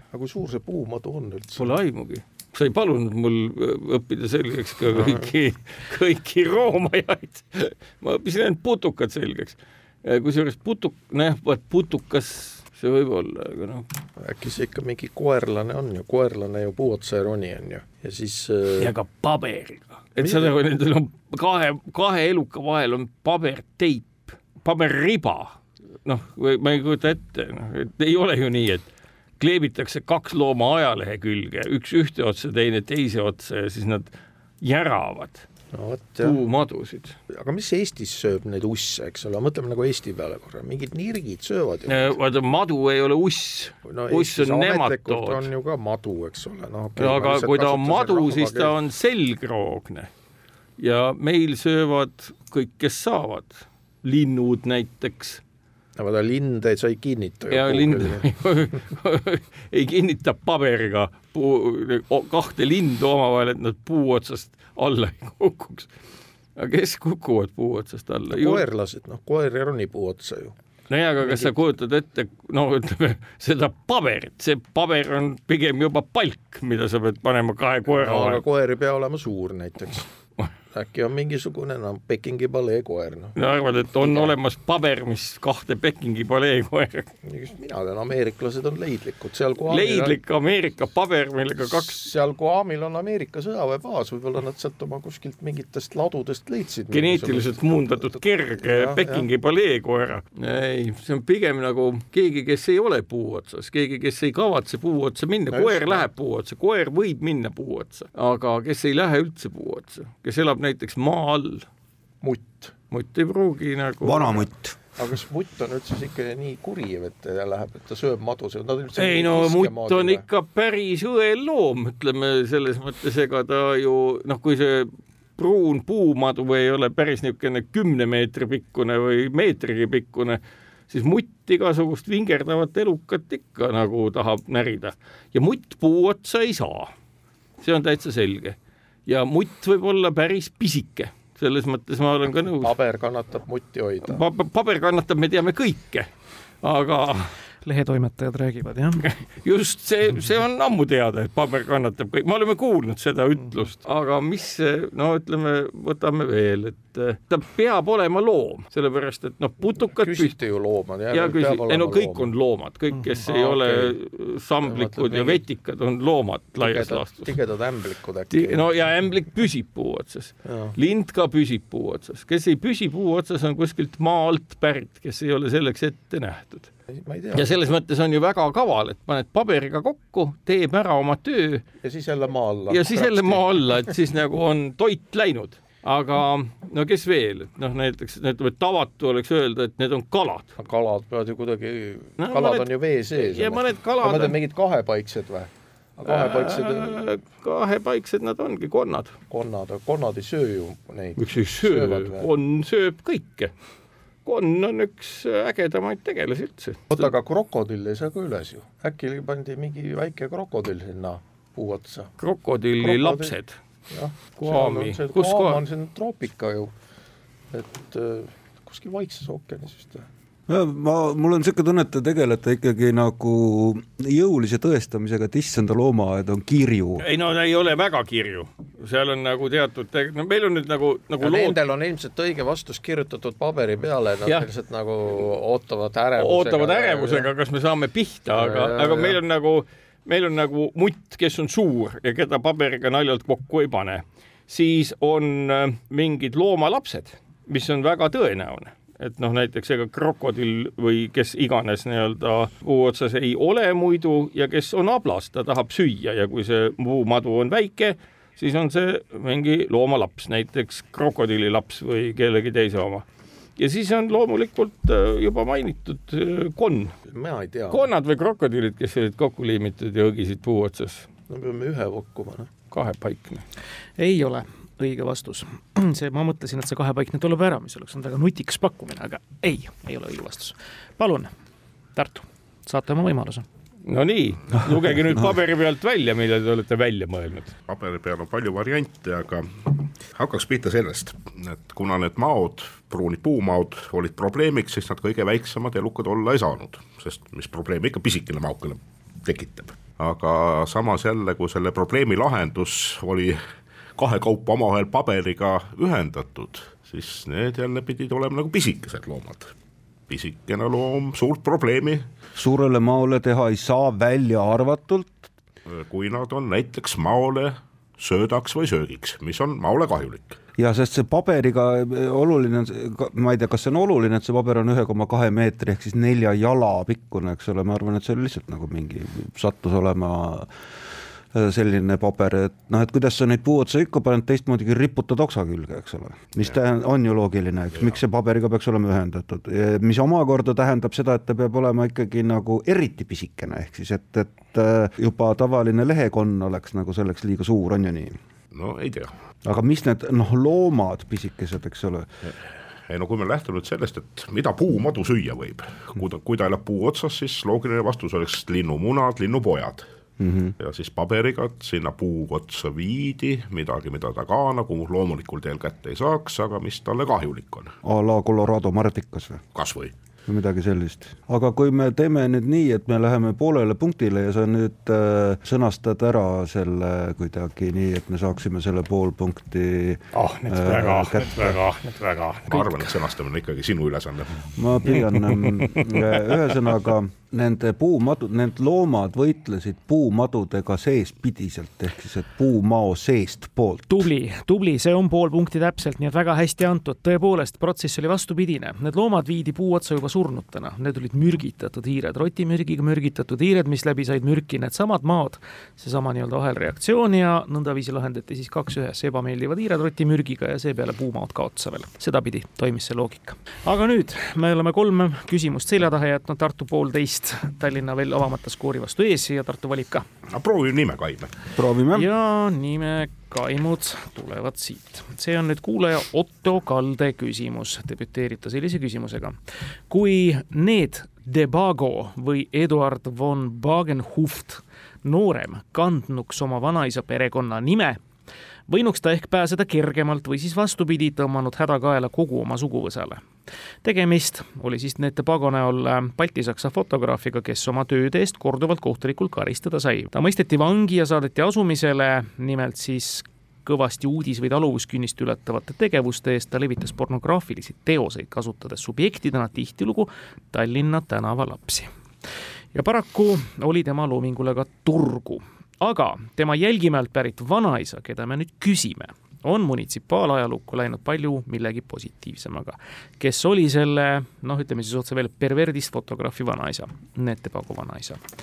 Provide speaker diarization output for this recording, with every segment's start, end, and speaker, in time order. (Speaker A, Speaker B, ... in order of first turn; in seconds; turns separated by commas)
Speaker A: 0.1-1.7, Speaker B: 1.6-13.9, Speaker A: 4.9-5.3, Speaker A: 14.2-18.9, Speaker B: 18.8-28.9, Speaker A: 20.2-20.5, Speaker B: 29.4-35.5, Speaker A: 35.7-36.4, Speaker B: 36.2-37.2, Speaker A: 37.3-42.2, Speaker B: 41.9-45.5, Speaker A: 43.9-48.7, Speaker B: 47.0-50.1, Speaker B: 50.8-55.4, Speaker A: 56.0-58.2, Speaker B: 57.5-65.9, Speaker B: 66.6-68.6, Speaker A: 68.3-70.5, Speaker B: 70.9-78.4, Speaker A: 71.2-71.6, Speaker A: 77.9-80.1, Speaker A: 80.7-83.4, Speaker B: 83.4-87.1, Speaker A: 84.0-84.3, Speaker A: 87.2-90.2, Speaker B: 89.7-92.0, Speaker A: 91.6-99.3, Speaker B: 96.9-111.7, Speaker A: 105.5-106.1, Speaker A: 112.2-112.7, Speaker B: 112.9-114.5, Speaker C: 114.0-114.8, Speaker A: 115.0-120.2, Speaker B: 119.0-136.9, Speaker B: 137.6-142.7, Speaker A: 142.6-144.2, Speaker B: 144.0-146.1, Speaker B: 146.6-147.3, Speaker D: 147.7-149.1, Speaker B: 149.4-160.4, Speaker A: 160.0-162.3, Speaker B: 161.1-167.3, Speaker A: 163.2-163.9, Speaker A: 164.6-165.4, Speaker A: 166.6-168.7, Speaker B: 168.3-176.7, Speaker A: 170.4-170.8, Speaker A: 176.9-177.6, Speaker B: 177.3-181.6, Speaker A: 181.8-183.5, Speaker B: 182.7-190.5, Speaker A: 190.6-197.0, Speaker B: 192.2-194.4, Speaker B: 196.1-199.1, Speaker A: 199.3-202.3, Speaker B: 201.2-203.5, Speaker B: 204.2-207.1, Speaker A: 206.9-212.1, Speaker B: 212.2-213.6, Speaker A: 212.8-213.3, Speaker A: 213.9-216.7, Speaker B: 214.4-215.6, Speaker A: 217.5-220.1, Speaker C: 220.5-227.1, Speaker B: 227.0-231.6, Speaker A: 231.2-237.3, Speaker B: 236.2-263.1, Speaker A: 238.3-239.2, Speaker B: 263.6-266.9, Speaker A: 267.1-267.9, Speaker B: 267.7-271.1, Speaker A: 271.3-272.5, Speaker B: 272.7-273.4, Speaker D: 274.0-281.3, Speaker D: 282.0-283.4, Speaker B: 283.9-287.5, Speaker E: 287.7-303.4, Speaker E: 304.0-309.5, Speaker E: 310.1-312.1, Speaker C: 312.4-315.3, Speaker E: 315.7-320.4, Speaker C: 320.6-330.5, Speaker C: 331.3-348.2, Speaker E: 348.5-349.1, Speaker C: 349.4-352.1, Speaker E: 352.9-359.9, Speaker C: 360.2-360.5, Speaker E: 360.6-367.7, Speaker C: 367.8-369.4, Speaker E: 369.6-369.9, Speaker C: 370.3-381.6, Speaker B: 380.1-382.7, Speaker E: 382.5-384.5, Speaker C: 384.6-393.9, Speaker B: 385.1-386.0, Speaker D: 393.9-420.1, Speaker E: 420.3-421.4, Speaker C: 421.6-422.1, Speaker D: 421.9-429.4, Speaker D: 429.9-438.0, Speaker D: 438.7-443.2, Speaker D: 443.8-461.9, Speaker D: 462.7-478.2